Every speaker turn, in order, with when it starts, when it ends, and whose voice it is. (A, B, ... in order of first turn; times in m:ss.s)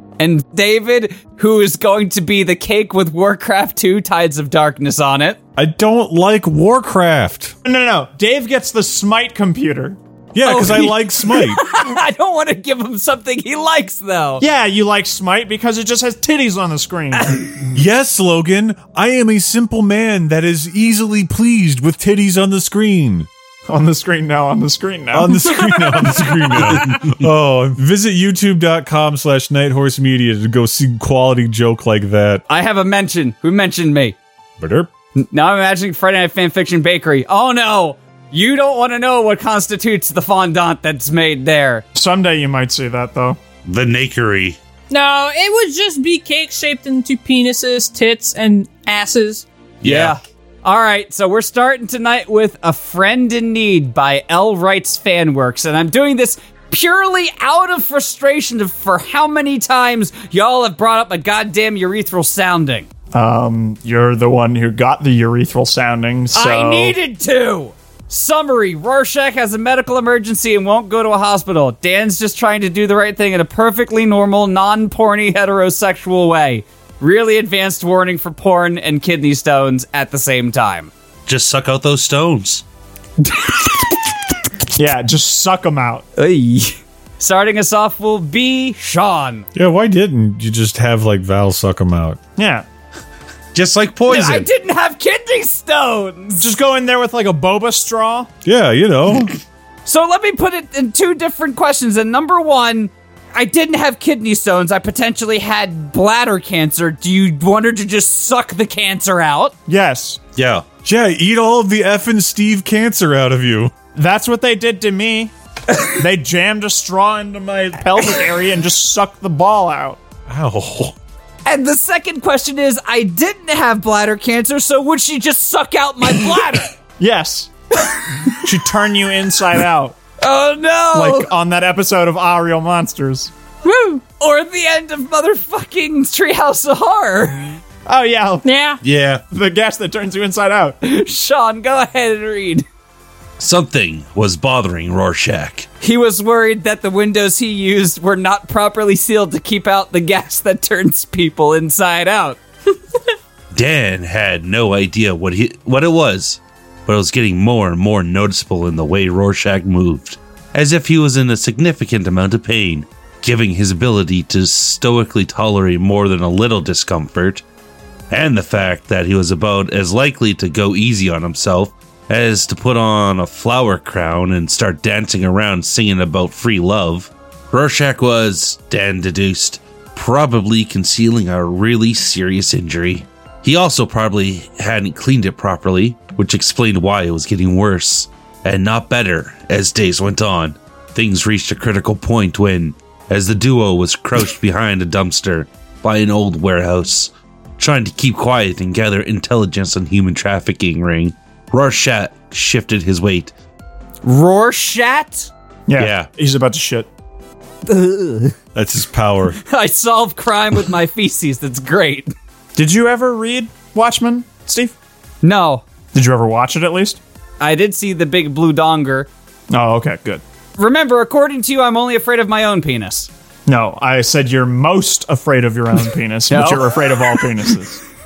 0:00.2-0:05.4 A
0:05.6-0:07.5 B
0:07.6-0:10.0 C
0:10.4-0:11.6 B
0:10.4-0:14.4 A
0:14.4-0:17.4 C
0:17.7-0:23.3 B
0:23.7-0:25.5 C
0:25.1-0:32.4 B
0:32.5-0:34.2 A
0:34.6-0:34.9 B
0:35.2-0:41.8 A
0:41.9-0:43.4 C
0:43.6-0:44.6 D
0:44.9-0:49.4 E
0:49.8-0:50.2 D
0:49.8-1:02.9 A
1:03.1-1:06.9 C
1:06.3-1:20.9 A
1:21.3-1:22.6 D
1:23.2-1:23.9 A
1:24.8-1:26.0 C
1:26.2-1:29.4 A
1:29.5-1:32.2 B
1:32.4-1:32.6 C
1:33.5-1:34.4 D
1:34.1-1:36.5 A
1:36.4-1:38.3 C
1:38.4-1:39.3 B
1:39.9-1:49.5 A
1:49.7-1:50.2 C
1:50.4-1:50.6 D
1:50.8-1:53.7 B
1:53.9-2:00.0 C
2:00.3-2:00.9 B
2:01.4-2:06.7 A
2:07.0-2:07.5 C
2:08.2-2:10.0 C
2:10.2-2:11.3 A
2:10.9-2:13.3 C
2:13.6-2:14.0 E
2:14.2-2:17.6 A
2:17.9-2:18.4 C
2:18.4-2:18.8 E
2:18.8-2:19.2 D
2:19.3-2:20.8 C
2:20.8-2:22.6 A
2:23.4-2:25.7 D
2:25.8-2:32.4 A
2:33.5-2:47.4 D
2:48.1-3:23.3 D
3:24.0-3:25.3 A
3:25.7-3:26.9 C
3:25.8-3:26.1 D
3:27.6-3:28.4 A
3:28.5-3:29.4 B
3:29.4-3:32.1 A
3:32.5-3:34.8 C
3:35.2-3:35.6 A
3:35.9-3:37.0 C
3:37.4-3:39.1 A
3:39.5-3:40.2 C
3:40.6-3:43.1 A
3:43.5-3:47.8 C
3:46.3-3:47.2 A